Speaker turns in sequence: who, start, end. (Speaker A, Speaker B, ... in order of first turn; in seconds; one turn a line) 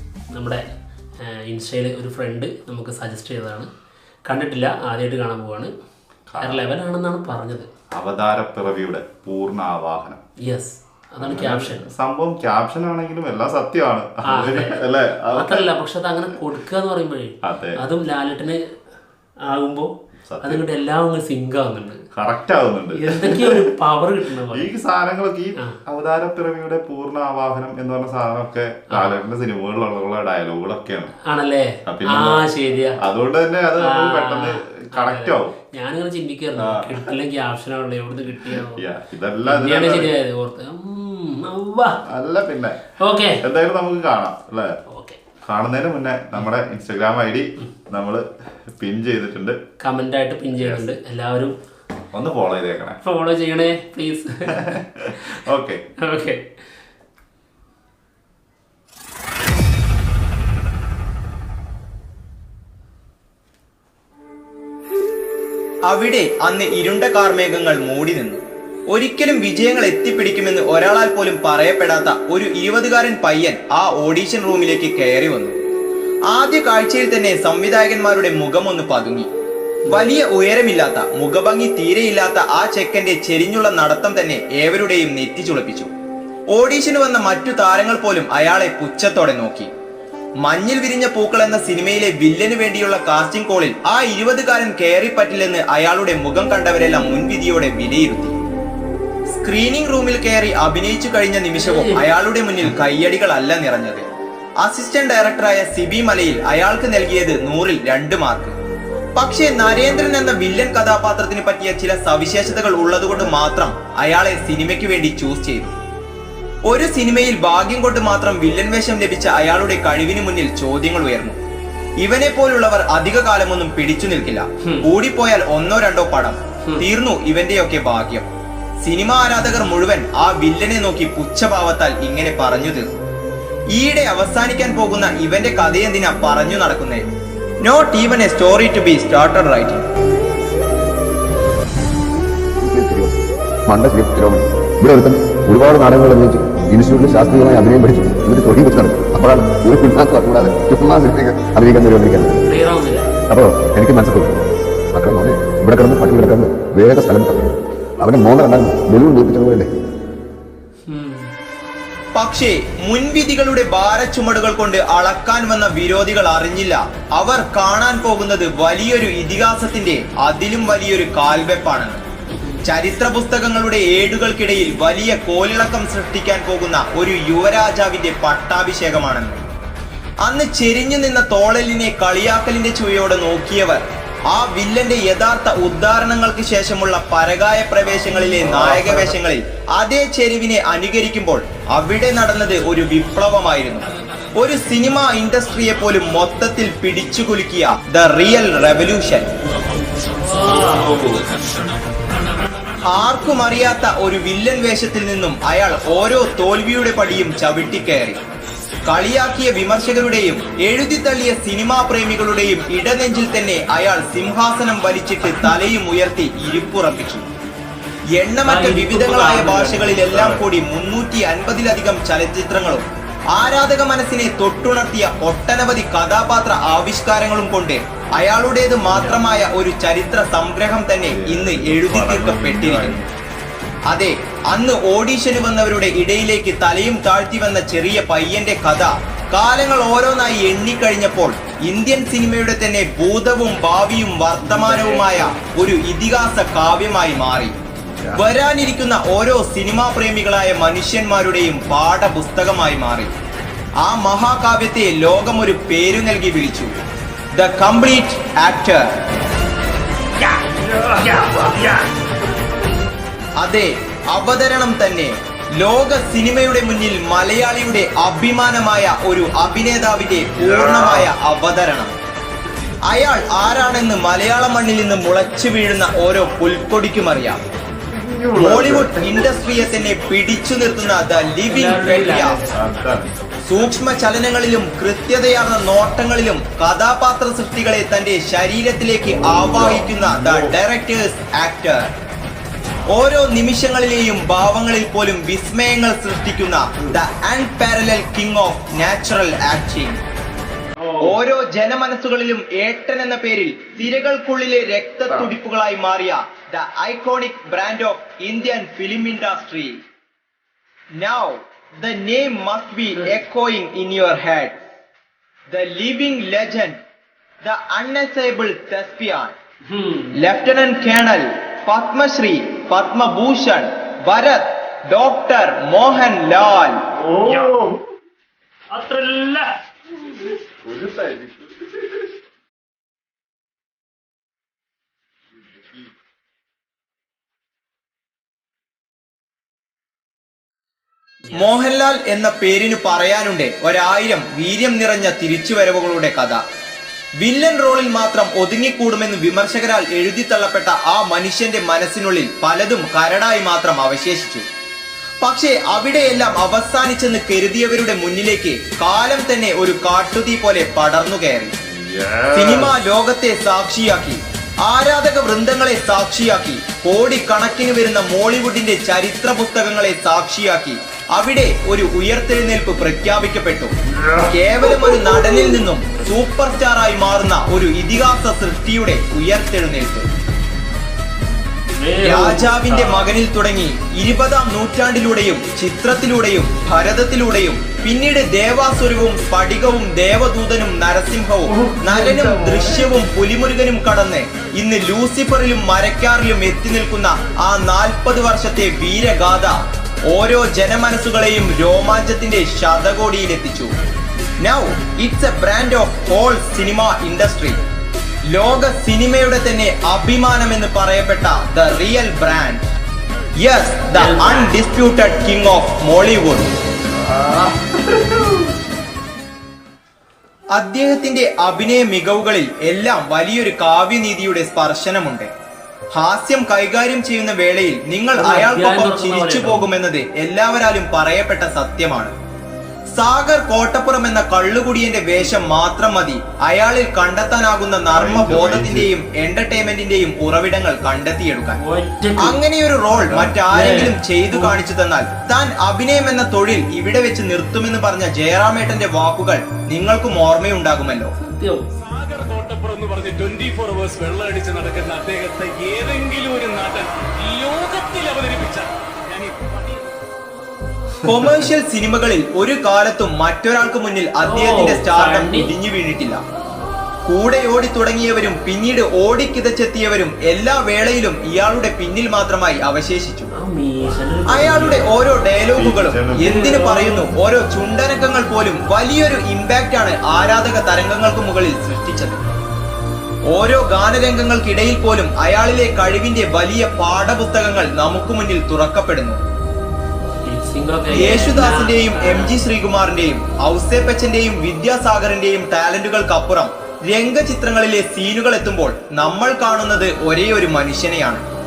Speaker A: 0.3-0.6
Speaker A: 1.3-3.7
Speaker A: 4.3-5.7
Speaker B: 6.3-6.7
Speaker A: 6.4-7.7
Speaker B: 8.0-10.2
Speaker A: 10.5-11.9
Speaker B: 11.2-15.7
Speaker A: 14.3-14.8
Speaker A: 15.3-18.6
Speaker B: 17.4-17.8
Speaker A: 19.5-19.9
Speaker B: 20.3-20.6
Speaker A: 20.4-22.0
Speaker B: 22.1-23.7
Speaker A: 23.0-24.7
Speaker B: 24.5-31.1
Speaker A: 28.9-29.2
Speaker A: 31.3-33.0
Speaker B: 31.9-32.5
Speaker B: 33.0-35.5
Speaker A: 33.8-38.8
Speaker B: 36.6-37.0
Speaker B: 38.5-40.1
Speaker A: 39.5-42.0
Speaker B: 42.1-42.8
Speaker A: 43.0-43.4
Speaker B: 43.4-44.7
Speaker A: 44.9-45.2
Speaker B: 45.5-49.6
Speaker A: 49.8-51.5
Speaker B: 50.6-50.9
Speaker B: 52.1-53.0
Speaker A: 53.0-54.7
Speaker B: 54.6-55.8
Speaker A: 56.0-56.5
Speaker C: 65.9-75.5
Speaker C: 76.3-79.3
Speaker C: 79.9-85.9
Speaker C: 86.5-89.7
Speaker C: 90.4-98.3
Speaker C: 99.3-104.0
Speaker A: 101.6-102.0
Speaker C: 104.6-108.5
Speaker C: 109.2-115.7
Speaker C: 116.7-121.4
Speaker C: 122.0-128.3
Speaker C: 128.8-132.9
Speaker C: 133.7-137.1
Speaker C: 137.6-139.8
Speaker D: 142.6-152.4
Speaker A: 152.4-153.1
Speaker D: 153.3-154.4
Speaker D: 154.9-159.7
Speaker A: 160.9-161.3
Speaker C: 162.2-172.0
Speaker A: 172.3-172.7
Speaker C: 172.7-179.4
Speaker C: 180.2-193.8
Speaker B: 187.8-189.0
Speaker C: 194.4-199.3
Speaker A: 200.3-201.0
Speaker C: 202.9-208.2
Speaker C: 208.9-217.3
Speaker C: 218.2-233.0
Speaker A: 218.4-220.4
Speaker A: 228.9-229.2
Speaker B: 231.0-233.1
Speaker C: 233.9-247.6
Speaker A: 244.4-245.4
Speaker B: 247.8-248.3
Speaker C: 248.2-253.1
Speaker C: 253.8-256.7
Speaker C: 257.3-258.9
Speaker C: 263.4-271.9
Speaker B: 270.4-271.1
Speaker C: 272.9-277.4
Speaker B: 277.9-280.0
Speaker C: 278.4-282.4
Speaker A: 281.5-283.0
Speaker B: 282.2-283.1
Speaker C: 283.5-291.9
Speaker B: 289.1-290.6
Speaker C: 292.9-300.0
Speaker A: 300.8-301.1
Speaker C: 301.0-309.8
Speaker C: 311.0-314.6
Speaker C: 315.5-316.8
Speaker C: 317.4-319.3
Speaker A: 319.7-320.2
Speaker C: 320.2-326.8
Speaker B: 327.1-327.7
Speaker A: 328.8-329.5
Speaker B: 330.7-331.4
Speaker A: 341.2-341.5
Speaker C: 341.4-346.4
Speaker C: 347.2-354.5
Speaker C: 355.2-361.5
Speaker B: 361.6-362.7
Speaker C: 362.3-373.7
Speaker C: 374.3-380.1
Speaker A: 381.8-383.1
Speaker C: 382.0-403.7
Speaker B: 391.5-392.9
Speaker C: 404.4-407.6
Speaker C: 408.3-412.6
Speaker C: 413.4-416.5
Speaker A: 413.9-414.6
Speaker B: 417.0-418.4
Speaker C: 420.5-425.3
Speaker C: 425.9-432.1
Speaker A: 428.2-429.7
Speaker C: 432.9-441.6
Speaker B: 437.9-438.9
Speaker A: 441.6-442.4
Speaker C: 442.2-451.1
Speaker B: 442.9-443.4
Speaker A: 443.5-444.6
Speaker A: 451.2-451.6
Speaker E: 451.8-460.0
Speaker C: 461.1-466.2
Speaker A: 464.2-465.5
Speaker C: 467.1-473.3
Speaker A: 473.4-474.9
Speaker C: 474.3-482.2
Speaker B: 475.5-476.3
Speaker A: 476.2-477.1
Speaker C: 483.3-489.2
Speaker A: 490.2-492.4
Speaker C: 490.9-501.2